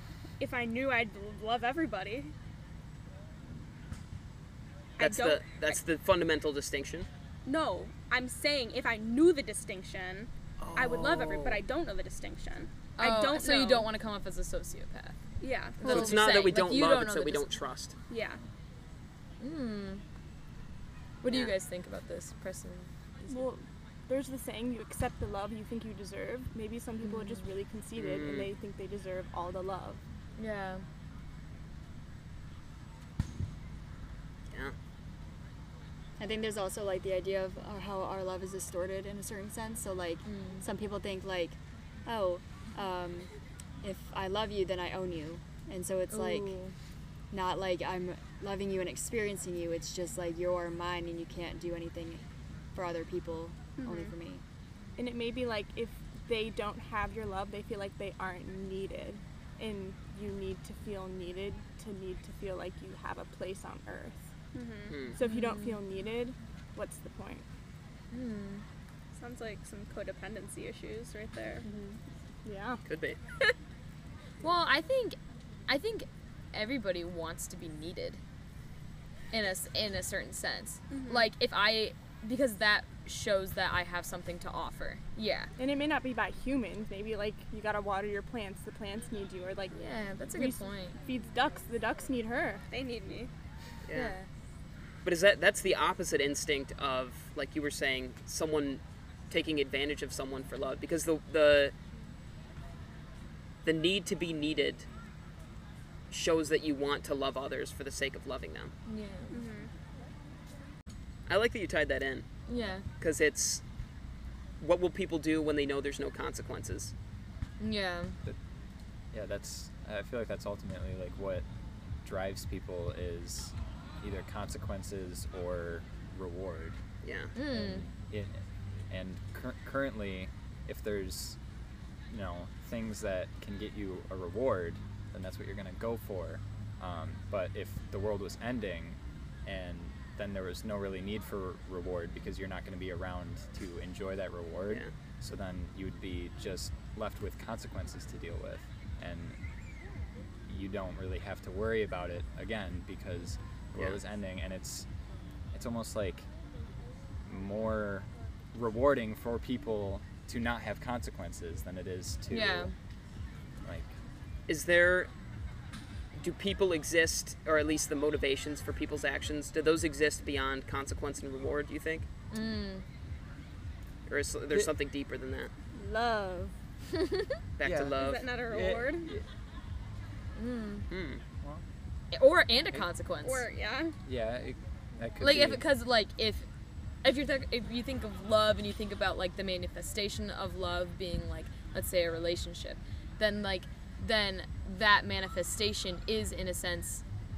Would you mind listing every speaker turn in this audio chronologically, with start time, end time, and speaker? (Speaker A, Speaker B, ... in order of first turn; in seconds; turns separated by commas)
Speaker A: 0.4-2.3, Speaker A: 5.0-5.8, Speaker B: 5.0-7.1, Speaker A: 7.5-13.9, Speaker B: 10.7-11.6, Speaker C: 13.0-15.2, Speaker A: 15.4-16.2, Speaker C: 15.8-17.5, Speaker B: 15.8-18.0, Speaker A: 18.1-18.4, Speaker C: 19.4-20.0, Speaker C: 21.2-23.5, Speaker B: 21.3-21.5, Speaker D: 23.3-30.0, Speaker C: 27.0-27.5, Speaker B: 28.0-28.5, Speaker C: 30.4-30.8, Speaker E: 36.2-43.3, Speaker C: 40.2-40.6, Speaker E: 43.8-46.6, Speaker C: 46.1-46.8, Speaker E: 47.3-54.4, Speaker A: 53.8-54.1, Speaker D: 55.0-64.2, Speaker A: 64.5-65.0, Speaker B: 64.9-65.2, Speaker D: 65.1-67.5, Speaker C: 65.2-65.8, Speaker C: 68.1-68.6, Speaker A: 69.1-71.6, Speaker D: 72.5-72.8, Speaker B: 72.9-73.2, Speaker C: 74.4-75.2, Speaker C: 75.7-78.2, Speaker C: 79.3-85.5, Speaker A: 80.9-81.3, Speaker D: 85.6-89.8, Speaker C: 89.7-91.0, Speaker D: 90.3-92.6, Speaker A: 92.7-93.3, Speaker B: 93.9-94.2, Speaker C: 93.9-94.3, Speaker B: 95.0-101.7, Speaker B: 103.6-104.9, Speaker B: 106.1-108.7, Speaker C: 108.9-109.4, Speaker A: 109.3-109.7, Speaker B: 111.3-112.3, Speaker C: 112.5-112.8, Speaker B: 113.0-113.6, Speaker B: 114.6-116.9, Speaker C: 117.6-118.2, Speaker F: 119.1-121.5, Speaker F: 122.0-126.8, Speaker B: 127.0-127.3, Speaker C: 127.3-127.8, Speaker F: 127.5-131.4, Speaker F: 132.1-149.4, Speaker F: 150.5-154.9, Speaker B: 153.8-154.0, Speaker F: 155.5-156.3, Speaker F: 157.3-162.7, Speaker C: 162.3-162.7, Speaker F: 163.6-163.9, Speaker B: 164.5-165.1, Speaker B: 166.2-172.1, Speaker C: 172.3-172.8, Speaker B: 174.1-175.5, Speaker D: 175.8-176.5, Speaker C: 176.9-177.3, Speaker B: 177.6-178.2, Speaker F: 177.6-179.2, Speaker A: 178.0-179.1, Speaker C: 180.4-180.9, Speaker B: 180.9-181.2, Speaker C: 182.1-183.5, Speaker A: 183.2-183.9, Speaker F: 184.1-185.7, Speaker C: 185.2-186.5, Speaker C: 187.0-197.0